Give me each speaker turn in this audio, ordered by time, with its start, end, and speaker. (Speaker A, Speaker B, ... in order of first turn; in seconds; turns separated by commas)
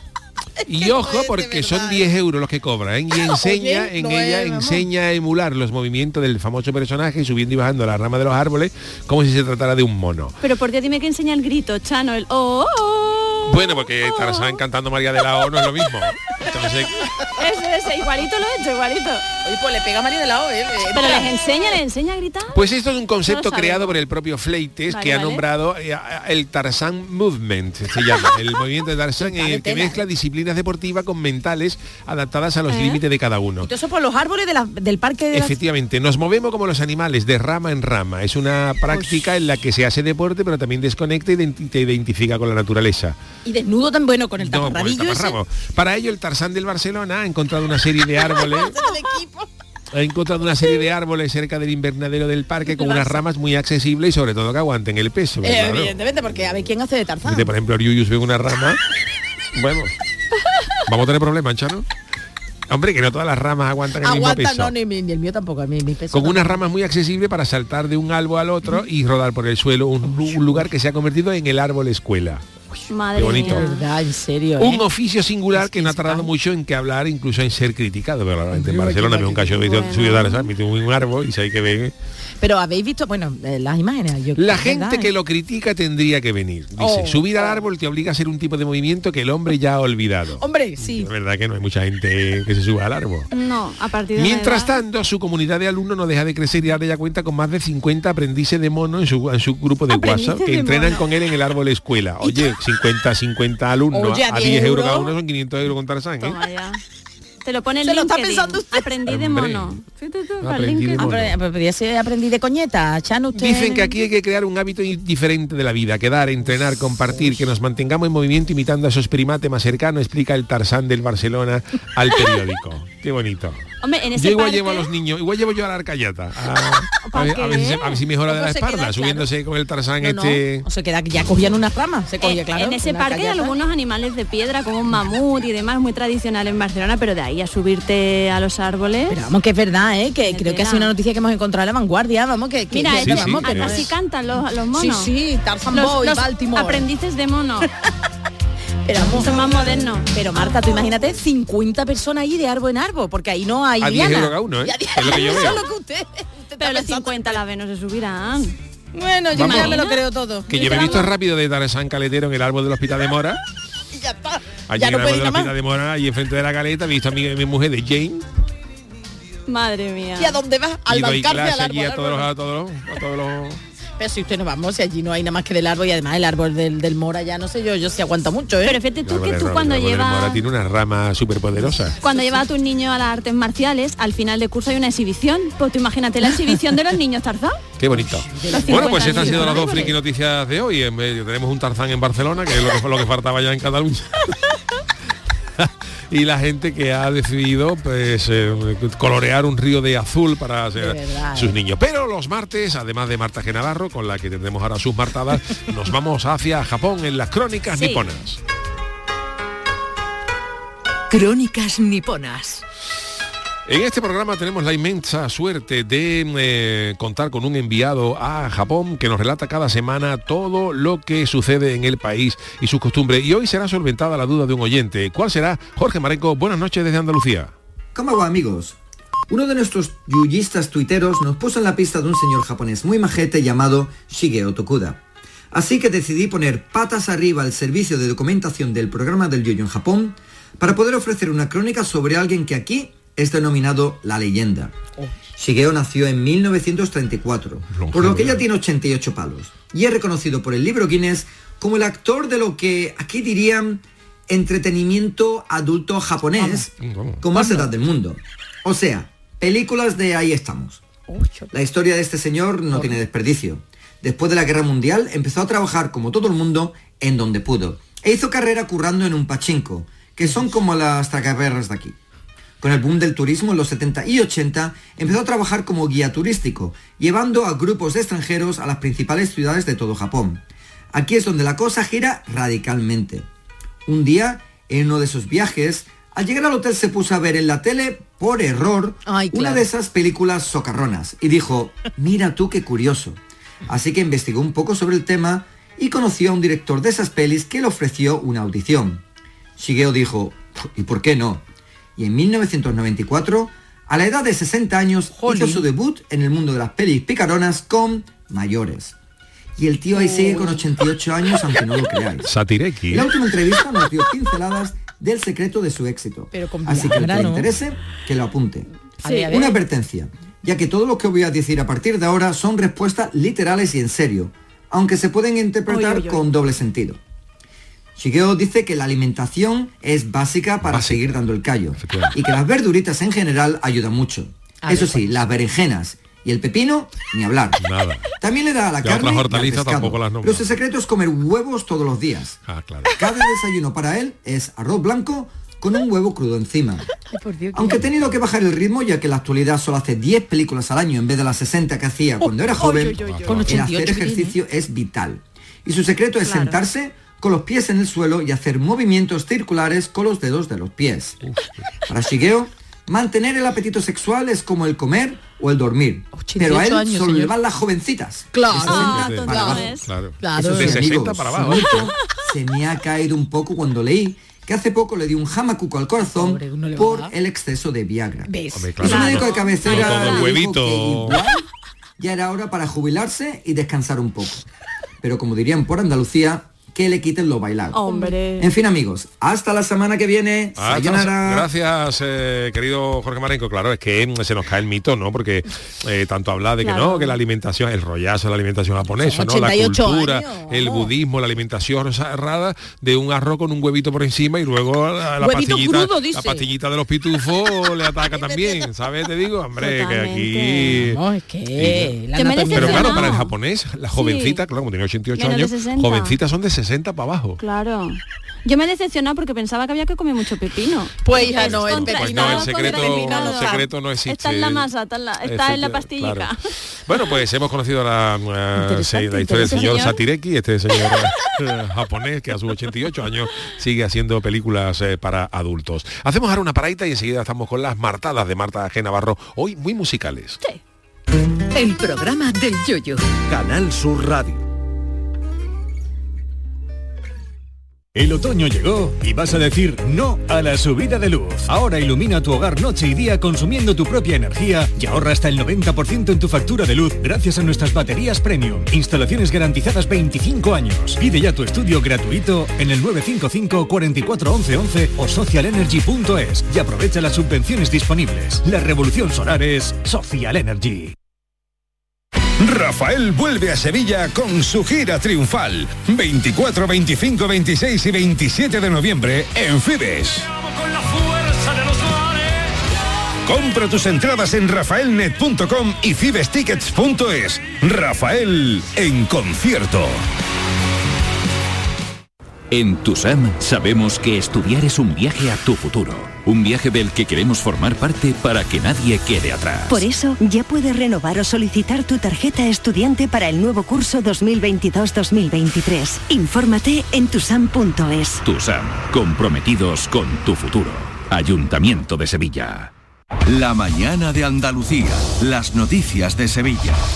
Speaker A: 0.7-2.1, Speaker B: 0.7-10.4, Speaker A: 3.1-4.8, Speaker C: 10.4-14.6, Speaker B: 13.5-17.1, Speaker C: 17.3-19.2, Speaker A: 19.4-21.4, Speaker C: 20.9-22.6, Speaker B: 22.5-33.7, Speaker C: 23.3-24.0, Speaker C: 24.9-25.4, Speaker A: 29.2-30.0, Speaker C: 32.7-33.0, Speaker A: 33.6-35.6, Speaker B: 35.3-43.1, Speaker A: 43.4-45.4, Speaker B: 44.4-48.8, Speaker A: 48.3-49.5, Speaker B: 49.9-56.0, Speaker C: 52.6-53.2, Speaker A: 55.4-57.5, Speaker B: 57.2-58.8, Speaker B: 59.5-59.9, Speaker B: 60.9-61.9, Speaker B: 62.7-64.7, Speaker A: 64.0-66.6, Speaker B: 66.1-72.4, Speaker A: 70.1-70.6, Speaker C: 72.9-73.8, Speaker B: 73.2-73.7, Speaker A: 73.2-74.8, Speaker B: 74.6-81.9, Speaker A: 75.5-76.3, Speaker A: 78.5-80.3, Speaker C: 79.7-80.4, Speaker A: 82.4-85.1, Speaker B: 84.4-93.3, Speaker A: 86.8-87.6, Speaker A: 90.4-91.1, Speaker C: 93.3-94.8, Speaker B: 94.2-106.4, Speaker C: 99.9-101.0, Speaker A: 102.2-102.5, Speaker A: 103.9-105.1, Speaker C: 106.2-106.8, Speaker C: 107.4-111.1, Speaker A: 107.8-108.9, Speaker B: 109.1-109.8, Speaker B: 110.4-111.4, Speaker A: 111.0-113.9, Speaker B: 113.3-130.7, Speaker C: 123.8-124.9, Speaker C: 126.9-128.0, Speaker A: 128.3-129.3, Speaker A: 130.0-133.6, Speaker C: 132.2-139.2, Speaker A: 139.1-143.9, Speaker C: 140.2-140.9, Speaker C: 142.7-145.1, Speaker B: 142.9-143.9, Speaker A: 144.7-146.8, Speaker C: 145.7-147.7, Speaker A: 148.9-157.4, Speaker C: 149.1-150.1, Speaker B: 153.8-155.6, Speaker C: 156.6-158.6, Speaker A: 158.9-161.1, Speaker B: 159.3-159.8, Speaker C: 159.3-160.0, Speaker B: 160.5-163.4, Speaker A: 163.9-165.5, Speaker B: 164.7-168.2, Speaker C: 169.5-170.4, Speaker A: 170.2-172.3, Speaker B: 170.9-173.6, Speaker A: 174.0-178.8, Speaker C: 178.6-180.4, Speaker B: 179.0-182.0, Speaker A: 181.7-182.4, Speaker C: 182.0-187.6, Speaker B: 187.8-194.4, Speaker A: 187.9-189.8, Speaker C: 188.5-189.9, Speaker B: 195.6-208.4, Speaker A: 200.8-201.6, Speaker C: 207.7-208.1, Speaker D: 211.1-212.6, Speaker B: 213.7-227.5, Speaker E: 227.9-228.8, Speaker E: 229.3-235.0, Speaker E: 235.5-244.8, Speaker E: 245.4-256.7, Speaker B: 247.7-248.4, Speaker A: 256.4-256.7, Speaker B: 256.8-257.2, Speaker E: 257.2-260.8, Speaker A: 257.3-257.7, Speaker A: 261.1-261.5, Speaker E: 261.5-271.9, Speaker E: 272.6-280.4, Speaker E: 280.9-283.2, Speaker E: 283.9-293.2, Speaker A: 289.1-289.7, Speaker E: 293.7-299.0, Speaker E: 299.6-301.4, Speaker E: 302.0-308.9, Speaker A: 305.1-305.6, Speaker E: 309.6-312.3, Speaker A: 309.9-310.6, Speaker B: 312.2-313.1, Speaker E: 312.9-318.7, Speaker A: 316.3-317.5, Speaker B: 317.0-317.3, Speaker A: 319.0-319.6, Speaker C: 319.0-319.3, Speaker E: 319.3-327.0, Speaker C: 325.7-326.2, Speaker E: 327.9-337.6, Speaker B: 330.6-331.2, Speaker B: 331.8-332.1, Speaker B: 337.6-338.1, Speaker E: 338.2-342.4, Speaker B: 338.8-340.6, Speaker B: 342.4-342.9, Speaker E: 342.9-346.9, Speaker A: 347.0-347.9, Speaker E: 347.5-361.2, Speaker A: 352.2-354.4, Speaker C: 352.6-353.5, Speaker B: 353.0-353.4, Speaker A: 356.3-356.6, Speaker B: 361.2-361.7, Speaker E: 361.9-369.8, Speaker A: 366.1-367.3, Speaker A: 368.3-369.7, Speaker B: 368.5-371.9, Speaker C: 368.6-369.9, Speaker A: 370.2-371.7, Speaker E: 370.4-381.4, Speaker A: 376.1-377.1, Speaker A: 378.3-379.6, Speaker B: 378.6-381.2, Speaker C: 378.8-380.3, Speaker E: 382.0-384.4, Speaker E: 385.0-387.8, Speaker C: 387.7-388.5, Speaker A: 387.9-388.1, Speaker E: 388.4-391.5, Speaker B: 390.6-411.0, Speaker C: 396.6-397.2, Speaker A: 398.9-400.9, Speaker A: 405.2-406.4, Speaker A: 408.1-408.7, Speaker C: 409.6-410.8, Speaker A: 410.8-413.1, Speaker B: 411.6-411.9, Speaker C: 412.1-413.3, Speaker B: 412.5-417.4, Speaker C: 413.9-414.4, Speaker C: 415.1-416.1, Speaker C: 417.4-426.4, Speaker A: 421.0-423.6, Speaker B: 421.2-424.7, Speaker B: 425.2-440.4, Speaker A: 428.6-429.9, Speaker C: 429.3-430.0, Speaker D: 441.5-443.1, Speaker F: 447.9-470.9, Speaker G: 472.4-480.3, Speaker G: 483.2-490.0, Speaker H: 492.5-499.8, Speaker I: 499.7-508.2, Speaker H: 508.2-512.7, Speaker J: 513.2-516.8